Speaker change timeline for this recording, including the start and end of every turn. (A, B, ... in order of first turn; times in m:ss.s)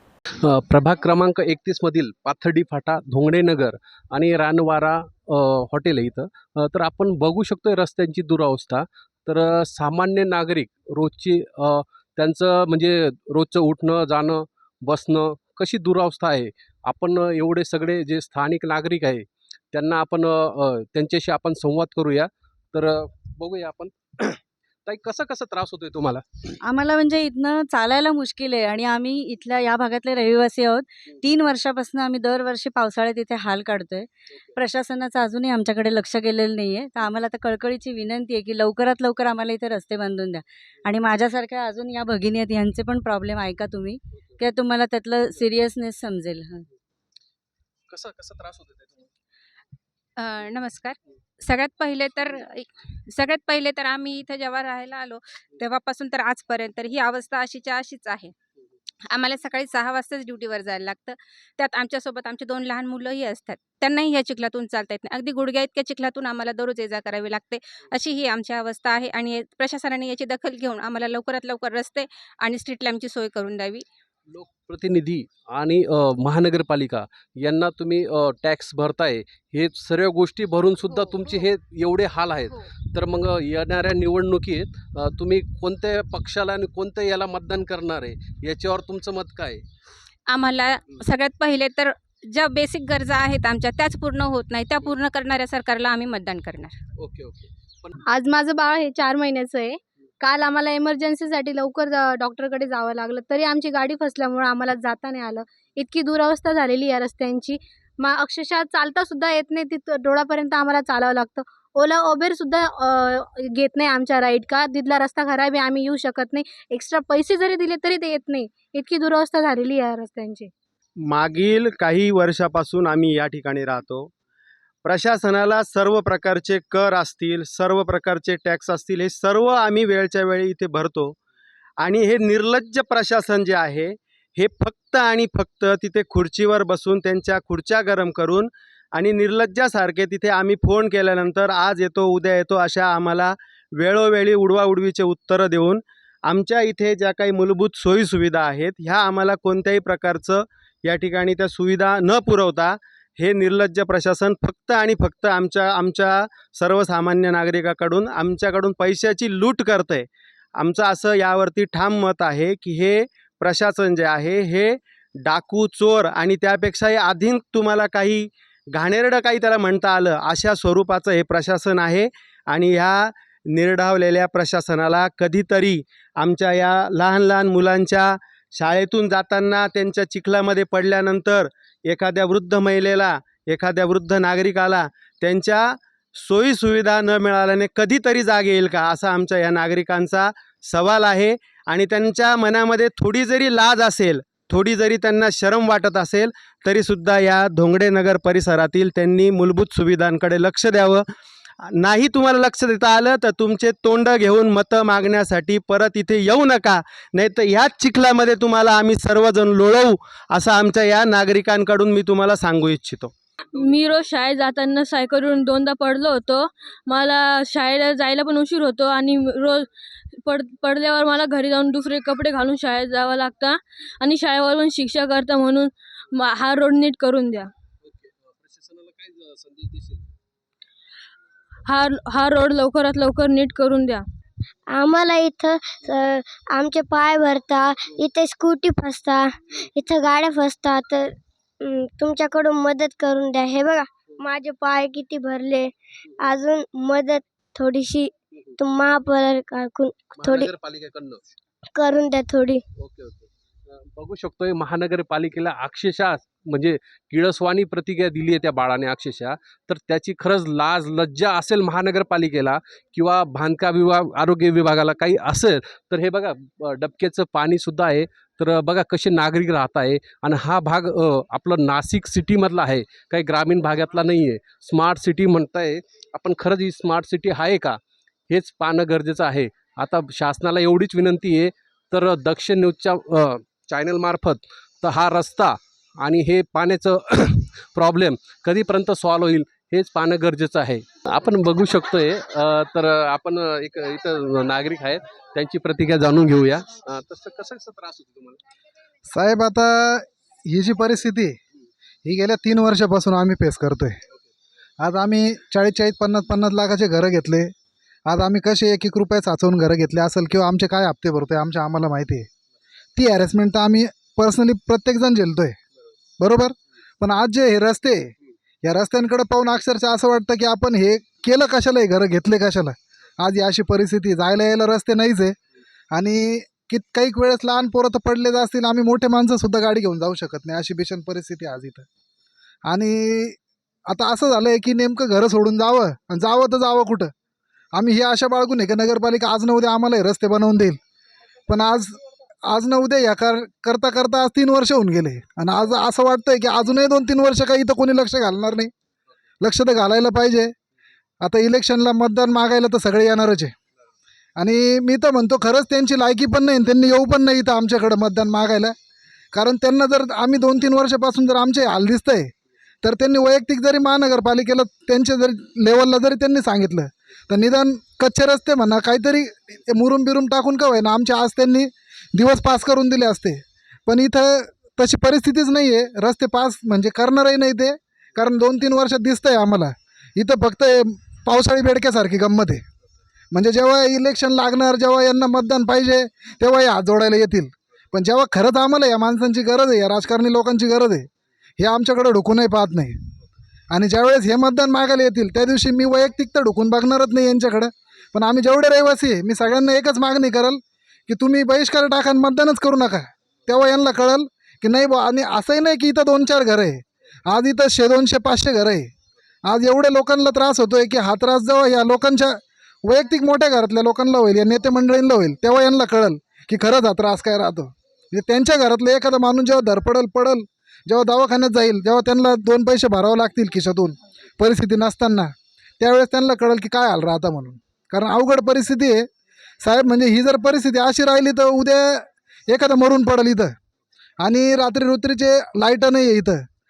0:00.4-0:26.2 A
0:26.6-0:46.7 B
0:47.9-0:48.9 A
0:50.2-0:58.3 C
0:59.1-1:13.8 C
1:14.3-1:29.6 A
1:20.9-1:21.4 C
1:30.3-1:36.8 C
1:37.0-1:37.9 A
1:38.1-2:00.5 D
2:01.2-2:04.1 E
2:04.9-2:11.2 E
2:11.8-2:18.5 E
2:19.0-2:23.3 E
2:23.8-2:25.8 E
2:26.3-2:40.1 E
2:40.6-2:44.7 E
2:45.3-2:48.3 E
2:48.8-2:53.0 E
2:53.6-3:05.6 E
3:06.2-3:21.0 E
3:21.9-3:33.1 E
3:33.5-3:39.7 F
3:40.2-3:47.5 F
3:47.8-3:50.0 A
3:51.7-3:54.0 F
3:54.7-4:10.5 G
4:10.1-4:11.2 A
4:11.8-4:12.6 G
4:12.8-4:37.8 A
4:38.3-4:58.4 A
4:59.1-5:01.4 H
5:02.0-5:04.0 H
5:04.8-5:07.5 H
5:08.1-5:12.3 H
5:13.0-5:15.6 H
5:16.2-5:18.1 H
5:18.6-5:25.4 H
5:25.9-5:31.9 H
5:32.7-5:33.4 H
5:33.9-5:37.1 H
5:37.8-5:40.8 H
5:41.5-5:48.7 H
5:49.4-5:50.5 H
5:51.2-5:53.5 H
5:54.4-5:58.8 H
5:59.3-6:02.3 H
6:02.8-6:22.6 H
6:23.3-6:31.1 H
6:31.6-6:33.0 H
6:33.7-6:48.9 H
6:49.5-7:09.1 H
7:09.6-7:13.5 H
7:14.2-7:16.4 H